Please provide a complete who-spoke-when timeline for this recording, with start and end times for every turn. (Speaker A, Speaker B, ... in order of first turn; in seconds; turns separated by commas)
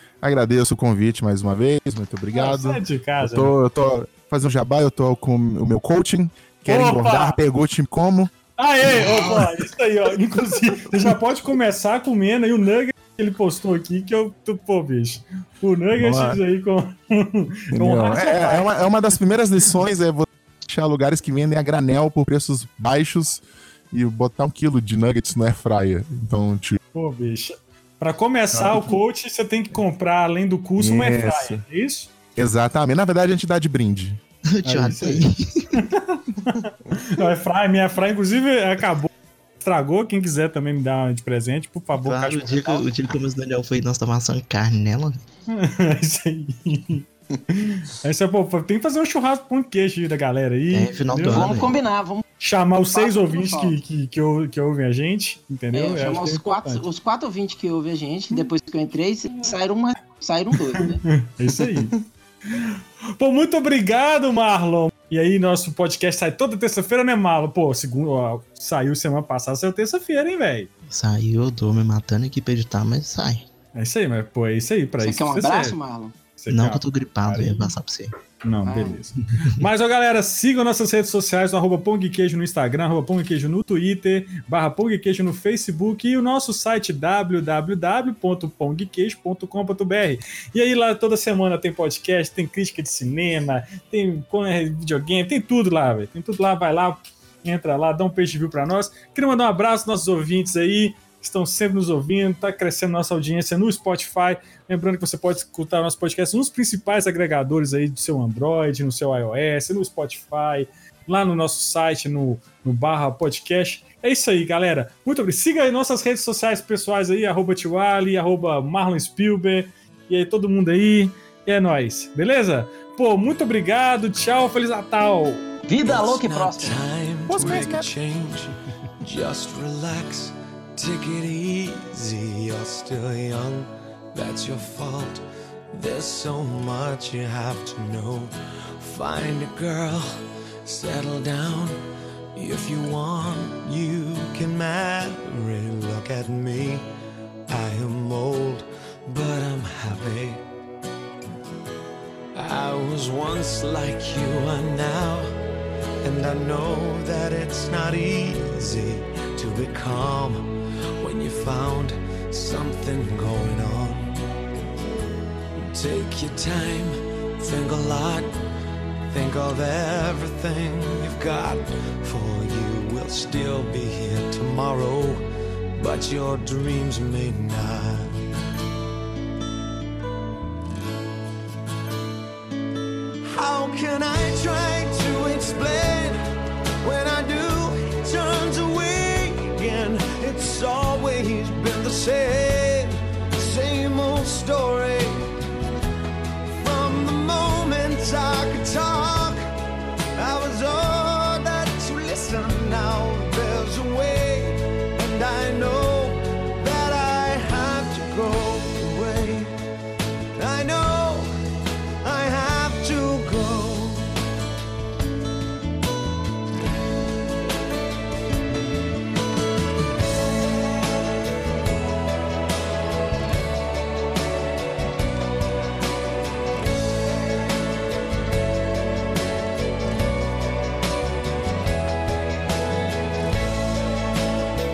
Speaker A: 0.2-8.3, Speaker B: 2.3-3.5, Speaker B: 6.7-7.4, Speaker B: 8.6-18.7, Speaker A: 8.9-9.5, Speaker C: 9.1-9.4, Speaker A: 16.0-16.4, Speaker A: 17.7-26.8, Speaker B: 26.9-32.1, Speaker A: 28.5-28.9, Speaker A: 30.8-31.6, Speaker A: 32.4-34.2, Speaker D: 34.5-35.9, Speaker B: 34.6-42.7, Speaker D: 41.9-45.2, Speaker B: 45.5-51.6, Speaker D: 50.7-51.7, Speaker C: 51.3-52.2, Speaker B: 52.4-56.8, Speaker C: 52.9-53.8, Speaker C: 55.7-61.0, Speaker B: 61.0-61.9, Speaker B: 62.5-70.7, Speaker D: 70.9-73.5, Speaker B: 73.7-75.8, Speaker C: 75.0-76.1, Speaker B: 76.4-77.7, Speaker D: 76.5-78.1, Speaker B: 78.4-125.6, Speaker C: 78.6-79.0, Speaker C: 125.7-126.8, Speaker E: 125.8-141.8, Speaker A: 127.3-127.9, Speaker E: 142.3-146.9, Speaker E: 147.5-150.4, Speaker E: 152.3-155.3, Speaker E: 156.0-164.3, Speaker E: 165.6-168.3, Speaker E: 169.1-175.2, Speaker E: 175.8-178.2, Speaker E: 183.2-186.2, Speaker E: 186.8-195.3, Speaker E: 196.5-199.5, Speaker E: 200.1-209.5, Speaker E: 210.3-211.3, Speaker E: 212.0-214.1